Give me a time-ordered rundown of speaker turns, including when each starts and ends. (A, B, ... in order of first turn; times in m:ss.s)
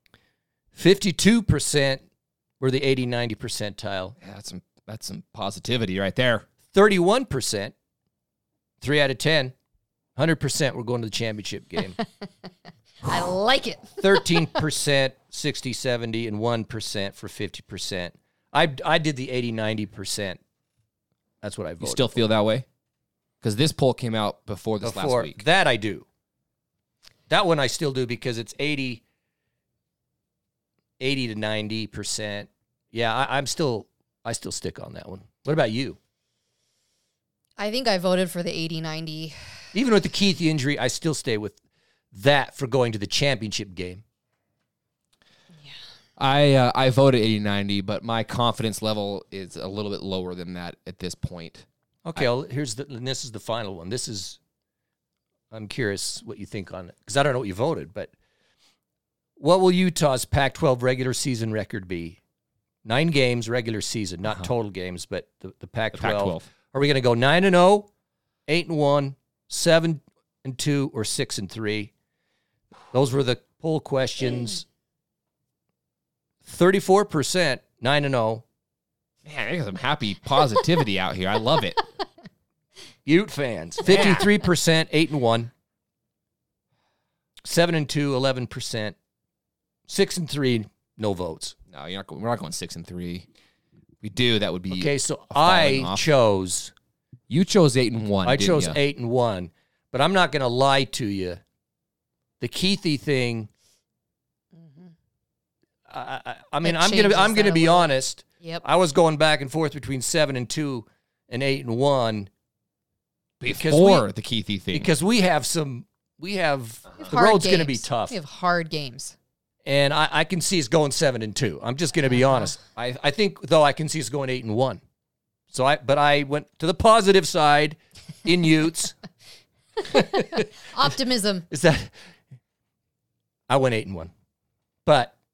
0:00.7-0:02.0 A
0:02.6-0:04.2 A
0:04.2-0:06.4 B
0:06.7-0:07.7 A
0:08.8-0:09.5 A
0:10.2-0:12.0 A
0:13.0-0:14.4 C
0:14.0-0:20.4 A
0:21.4-0:22.1 A
0:21.8-0:22.6 B
0:23.4-0:25.4 B
0:24.8-0:26.1 A
0:27.3-0:29.0 A
0:31.0-0:36.0 A
0:37.6-0:39.4 C
0:39.7-0:41.6 A
0:42.1-0:44.0 A
0:46.2-0:52.3 B
0:52.0-0:54.4 A
0:55.5-0:58.1 A
0:59.4-1:02.2 A
1:02.8-1:07.9 A
1:05.9-1:06.5 B
1:08.5-1:11.9 A
1:12.9-1:14.6 A
1:16.4-1:18.4 A
1:19.2-1:21.8 B
1:23.0-1:25.5 A
1:23.8-1:24.3 B
1:27.4-1:29.0 A
1:29.9-1:31.6 A
1:31.7-1:33.3 B
1:34.0-1:36.1 B
1:34.7-1:36.7 A
1:37.3-1:38.8 B
1:38.2-1:41.4 A
1:42.4-1:43.5 A
1:44.6-1:44.9 C
1:45.9-1:52.3 A
1:46.6-1:47.9 C
1:53.4-1:54.9 B
1:53.5-1:54.1 A
1:54.7-1:58.2 A
1:57.0-1:59.2 C
1:59.6-2:04.8 A
2:05.5-2:09.0 A
2:09.8-2:10.5 A
2:10.0-2:11.5 C
2:11.5-2:11.9 A
2:13.5-2:14.1 A
2:14.9-2:15.1 A